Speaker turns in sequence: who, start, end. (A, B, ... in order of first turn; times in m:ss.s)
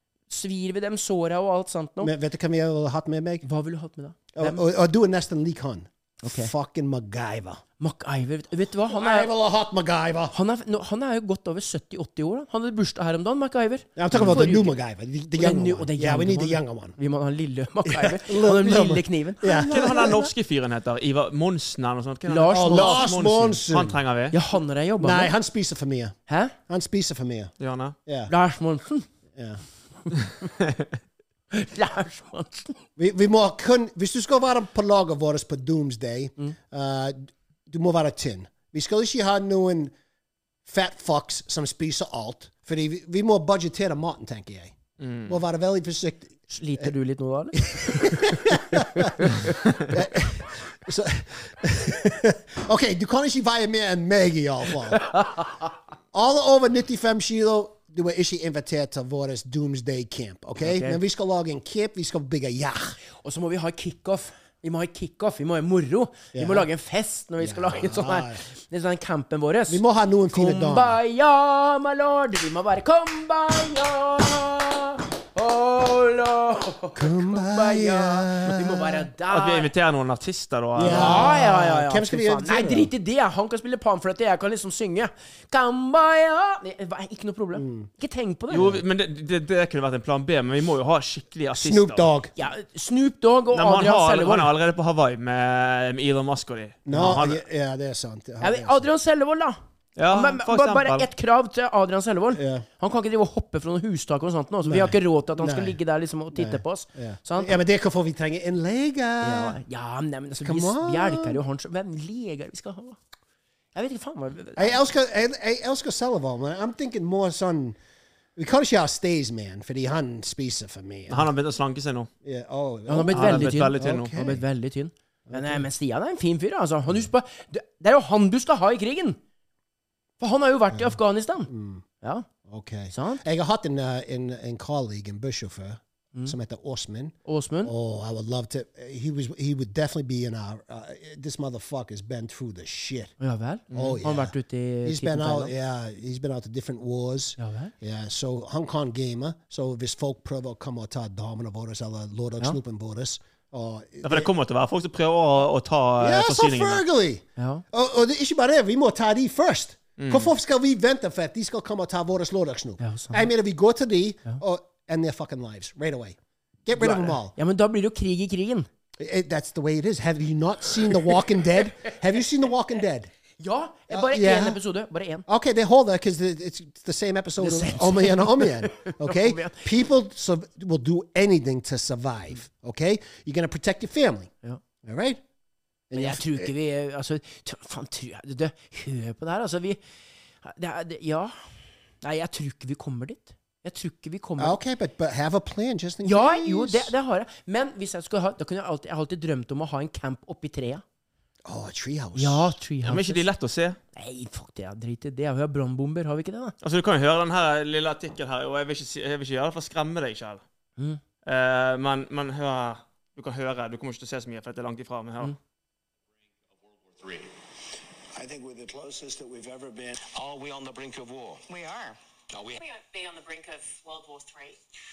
0:00.3-0:02.1 A
0:02.0-0:03.4 B
0:03.4-0:04.6 A
0:04.3-0:07.6 B
0:06.2-0:06.5 A
0:07.8-0:09.3 A
0:08.9-0:10.3 B
0:10.3-0:14.7 A
0:14.0-0:17.0 B
0:15.4-0:19.5 A
0:17.8-0:20.3 B
0:19.4-0:24.3 C
0:22.3-0:23.0 A
0:22.5-0:24.0 B
0:24.3-0:25.3 A
0:25.0-0:27.5 B
0:26.3-0:26.5 A
0:27.6-0:27.9 C
0:28.0-0:28.3 B
0:28.3-0:29.1 A
0:31.5-0:32.8 A
0:33.0-0:39.9 B
0:40.6-0:46.9 B
0:45.0-0:45.3 C
0:46.5-0:49.6 A
0:47.6-0:55.0 B
0:54.9-0:55.6 A
0:56.1-1:03.0 B
1:00.6-1:01.0 A
1:03.2-1:09.8 A
1:06.3-1:06.7 B
1:07.4-1:08.4 B
1:09.7-1:11.0 B
1:10.3-1:19.7 A
1:17.0-1:19.0 B
1:19.3-1:21.3 C
1:20.8-1:22.9 B
1:20.8-1:28.8 A
1:27.5-1:27.9 B
1:28.5-1:32.1 C
1:31.5-1:32.3 B
1:32.4-1:34.5 A
1:33.5-1:37.4 C
1:36.9-1:38.8 B
1:38.4-1:47.6 A
1:40.0-1:41.1 C
1:42.3-1:42.6 B
1:44.6-1:45.8 B
1:46.3-1:49.6 B
1:49.2-1:53.0 A
1:50.4-1:51.4 B
1:53.7-1:54.8 A
1:54.6-1:57.8 B
1:58.4-2:01.3 B
2:01.1-2:02.1 C
2:02.2-2:04.4 B
2:02.9-2:09.2 A
2:03.1-2:04.1 C
2:05.3-2:05.6 B
2:10.2-2:11.5 A
2:11.5-2:11.8 B
2:12.0-2:12.3 A
2:12.4-2:23.1 B
2:12.9-2:13.2 A
2:17.2-2:17.7 A
2:23.2-2:25.5 A
2:23.7-2:24.0 C
2:23.7-2:34.3 B
2:27.4-2:27.7 A
2:34.0-2:36.8 C
2:36.0-2:47.3 B
2:37.4-2:37.6 A
2:40.0-2:40.3 C
2:42.8-2:43.3 A
2:46.7-2:48.7 A
2:49.0-2:53.1 B
2:53.4-2:55.2 A
2:53.9-2:54.6 B
2:55.3-3:04.3 B
2:57.4-2:59.7 A
3:04.8-3:05.2 B
3:05.9-3:06.5 B
3:05.9-3:09.8 A
3:10.4-3:11.4 A
3:12.0-3:14.6 A
3:14.4-3:16.9 B
3:16.0-3:20.8 A
3:21.4-3:22.6 B
3:22.2-3:23.2 A
3:22.8-3:23.8 C
3:23.9-3:26.5 A
3:26.6-3:30.4 C
3:31.2-3:35.3 C
3:36.9-3:37.3 D
3:38.1-3:41.4 D
3:41.5-3:42.0 E
3:42.3-3:42.6 D
3:42.6-3:44.6 E